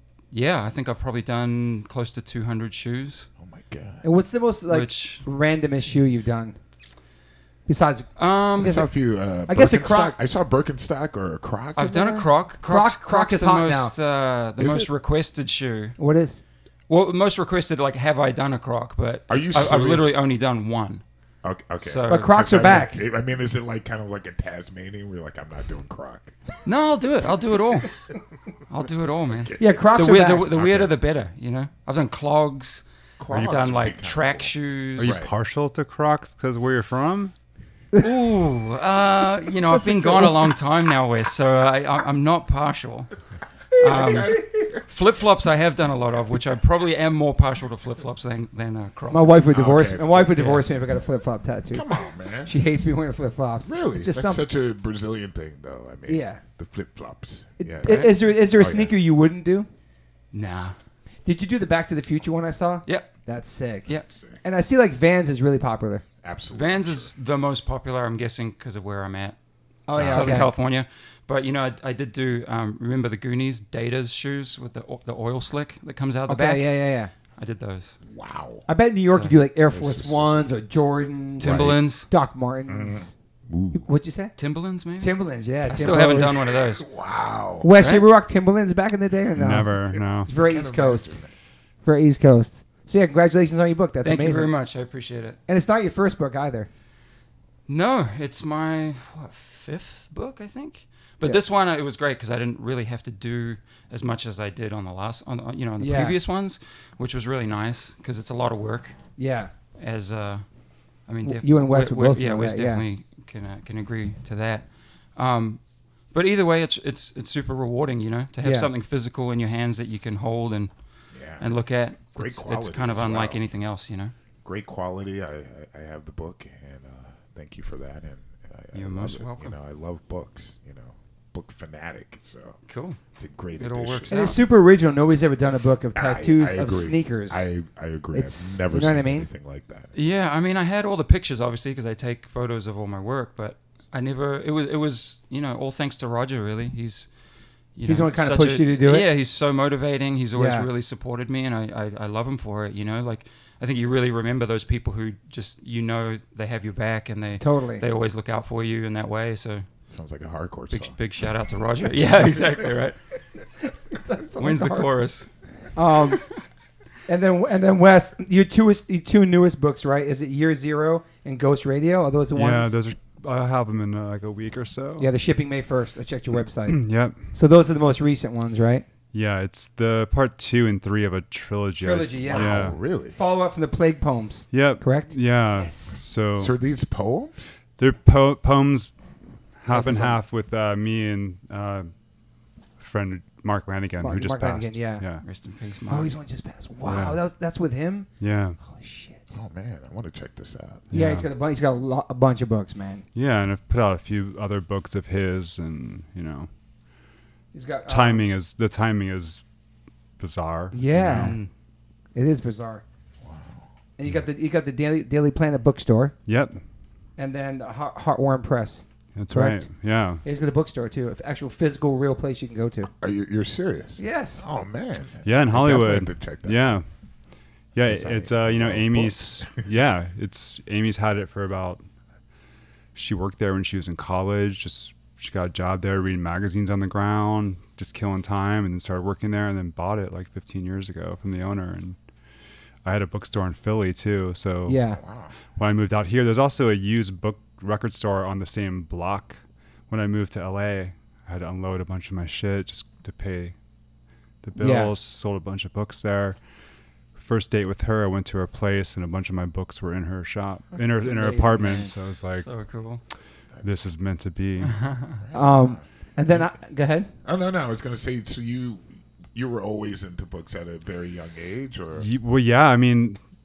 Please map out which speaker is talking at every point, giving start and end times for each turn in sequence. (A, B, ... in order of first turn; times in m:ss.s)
0:00.3-0:03.3 A
0:03.4-0:04.0 B
0:04.0-0:06.6 C
0:04.7-0:05.2 A
0:07.7-0:08.9 C
0:08.2-0:08.9 A
0:08.6-0:12.3 B
0:09.4-0:10.2 C
0:11.8-0:16.0 A
0:12.6-0:13.9 C
0:14.6-0:14.9 B
0:16.0-0:16.4 C
0:16.9-0:21.0 A
0:19.3-0:20.2 B
0:21.4-0:26.6 B
0:21.8-0:22.7 A
0:22.1-0:23.0 C
0:26.6-0:27.9 A
0:28.7-0:35.2 A
0:29.3-0:31.0 B
0:29.6-0:30.5 C
0:33.2-0:35.3 B
0:35.0-0:37.3 D
0:38.0-0:43.1 A
0:39.7-0:40.4 C
0:43.8-0:49.4 A
0:43.8-0:44.8 B
0:44.1-0:44.4 C
0:49.1-0:51.9 C
0:49.5-0:50.4 B
0:50.3-0:50.6 A
0:51.7-0:52.5 B
0:52.4-0:54.4 C
0:53.6-0:58.9 B
0:56.1-0:56.4 C
0:57.6-0:59.7 C
1:00.3-1:00.8 A
1:01.2-1:03.9 C
1:02.9-1:03.1 A
1:04.1-1:04.4 B
1:04.4-1:06.0 C
1:06.2-1:07.1 B
1:06.5-1:09.4 A
1:09.9-1:10.5 C
1:09.9-1:10.5 B
1:10.0-1:16.7 A
1:16.3-1:17.1 C
1:17.4-1:18.0 A
1:18.1-1:18.7 B
1:18.7-1:23.1 C
1:19.1-1:19.3 A
1:19.7-1:20.4 B
1:21.4-1:22.1 A
1:21.4-1:21.8 B
1:22.7-1:23.8 B
1:23.7-1:24.3 C
1:24.4-1:26.9 A
1:25.0-1:26.3 C
1:25.7-1:27.7 B
1:27.6-1:31.2 C
1:27.8-1:28.1 A
1:29.4-1:30.3 D
1:29.5-1:31.3 B
1:31.8-1:34.5 C
1:34.0-1:35.4 A
1:35.5-1:36.7 C
1:37.7-1:49.0 A
1:45.8-1:46.2 C
1:49.2-1:49.5 C
1:49.8-1:50.4 A
1:51.1-2:00.7 A
1:51.2-1:52.8 C
1:58.4-1:58.7 C
2:01.1-2:01.5 B
2:01.4-2:04.1 A
2:02.2-2:03.4 B
2:04.4-2:12.6 B
2:08.7-2:09.6 A
2:12.7-2:13.0 A
2:13.2-2:14.2 B
2:13.6-2:14.4 A
2:14.1-2:17.5 C
2:15.9-2:19.9 B
2:18.1-2:19.3 C
2:19.9-2:27.1 A
2:27.8-2:39.7 A
2:27.9-2:29.1 C
2:30.4-2:30.7 C
2:37.4-2:37.8 C
2:39.9-2:41.0 B
2:40.7-2:43.0 A
2:43.9-2:44.9 C
2:44.4-2:45.3 A
2:45.7-2:46.2 C
2:47.1-2:52.8 C
2:52.3-2:55.1 D
2:55.0-2:56.8 C
2:56.7-2:57.2 D
2:57.3-2:58.9 C
2:59.1-3:02.8 D
3:01.8-3:06.0 C
3:02.3-3:03.2 B
3:04.5-3:06.5 D
3:06.4-3:07.5 B
3:07.8-3:08.9 D
3:09.6-3:11.9 D
3:09.7-3:10.2 C
3:12.8-3:15.2 D
3:14.0-3:15.0 C
3:15.2-3:16.2 A
3:15.9-3:18.1 C
3:16.9-3:17.2 D
3:18.2-3:18.6 D
3:18.6-3:19.2 C
3:19.3-3:20.9 B
3:20.9-3:21.3 D
3:20.9-3:23.0 C
3:23.2-3:26.5 D
3:27.5-3:28.3 C
3:27.9-3:29.4 D
3:30.2-3:31.4 D
3:30.7-3:31.4 C
3:31.0-3:31.5 A
3:32.2-3:32.8 C
3:33.2-3:33.6 B
3:34.0-3:36.2 C
3:36.3-3:36.6 D
3:37.2-3:39.6 C
3:39.2-3:40.2 D
3:40.2-3:42.9 C
3:43.0-3:46.8 B
3:44.0-3:44.4 C
3:45.2-3:46.9 D
3:47.8-3:51.8 D
3:47.8-3:49.7 B
3:53.0-4:02.0 D
4:02.8-4:04.8 D
4:04.7-4:05.0 C
4:04.9-4:05.4 B
4:05.6-4:13.6 D
4:14.4-4:16.4 D
4:14.6-4:14.9 C
4:17.2-4:22.5 D
4:21.0-4:21.9 C
4:22.4-4:23.0 A
4:23.5-4:23.8 B
4:23.6-4:24.8 D
4:24.6-4:25.2 A
4:25.2-4:25.8 B
4:25.3-4:27.1 C
4:27.2-4:32.1 B
4:32.0-4:33.2 D